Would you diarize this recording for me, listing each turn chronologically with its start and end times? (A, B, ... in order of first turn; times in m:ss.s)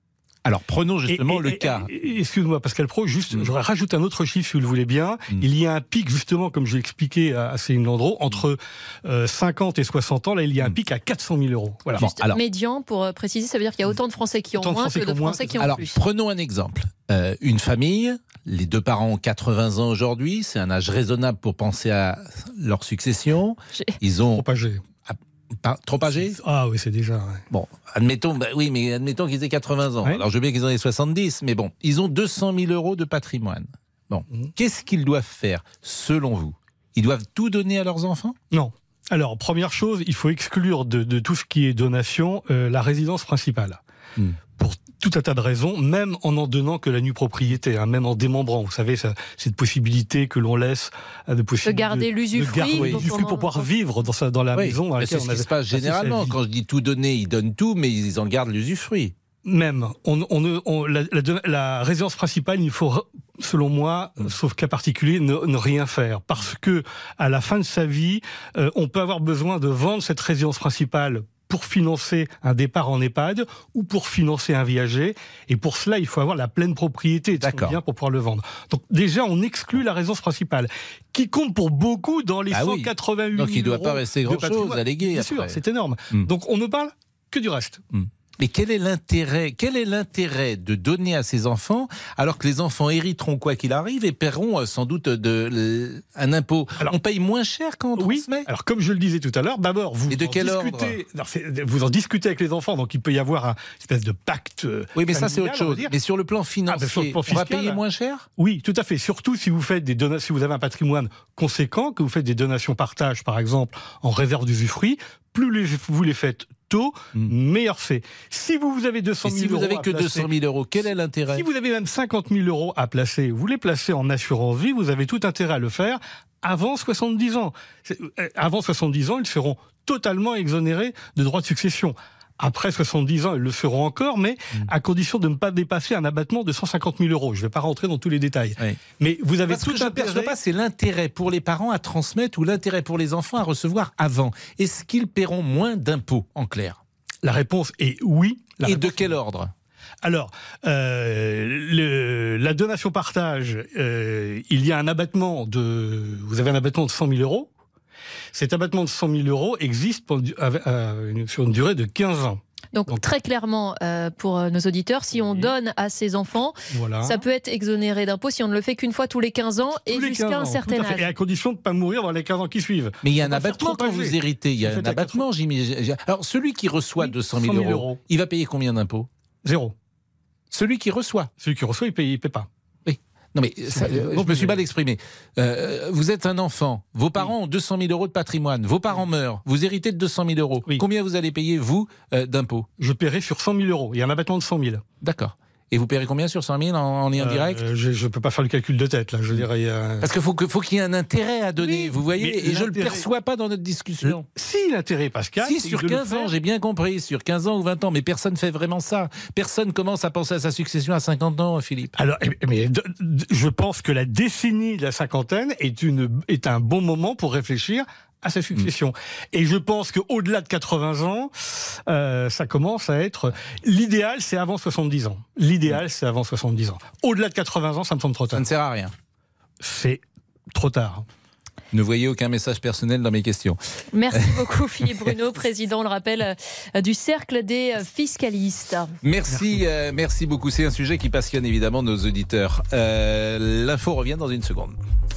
0:00.4-0:01.9 A
0:01.1-0:12.1 B
0:11.9-0:12.4 A
0:12.0-0:16.0 C
0:14.6-0:15.8 B
0:15.6-0:24.4 A
0:24.3-0:24.8 B
0:25.1-0:26.4 A
0:26.3-0:27.4 B
0:27.5-0:38.3 A
0:38.5-0:43.8 B
0:44.6-0:56.4 B
0:51.6-0:53.7 C
0:52.8-0:53.0 A
0:54.5-0:59.1 A
0:59.4-1:27.8 B
1:17.4-1:17.8 A
1:22.5-1:25.6 A
1:27.9-1:38.5 A
1:38.0-1:45.9 B
1:40.1-1:41.0 A
1:45.0-1:48.2 A
1:46.7-1:47.8 B
1:48.4-2:00.3 B
1:59.2-2:01.4 A
2:01.3-2:20.3 B
2:19.5-2:26.8 A
2:27.2-2:29.1 B
2:28.6-2:29.5 A
2:30.0-2:37.5 B
2:38.3-2:43.0 B
2:42.7-2:51.1 C
2:46.7-2:47.2 B
2:49.8-2:55.3 B
2:53.0-2:59.1 A
2:57.0-2:58.0 B
2:59.4-2:59.7 B
3:00.5-3:01.3 A
3:01.4-3:02.5 B
3:02.8-3:12.7 A
3:03.7-3:04.6 B
3:12.8-3:14.8 B
3:15.0-3:17.6 A
3:17.2-3:20.1 B
3:20.0-3:24.2 A
3:21.6-3:23.1 B
3:24.0-3:26.3 B
3:25.4-3:32.0 A
3:32.0-3:48.5 B
3:48.3-3:48.9 A
3:49.6-3:51.0 B
3:51.7-3:53.6 A
3:53.9-3:58.9 C
3:54.1-3:55.1 A
3:59.0-4:04.8 A
3:59.3-3:59.6 B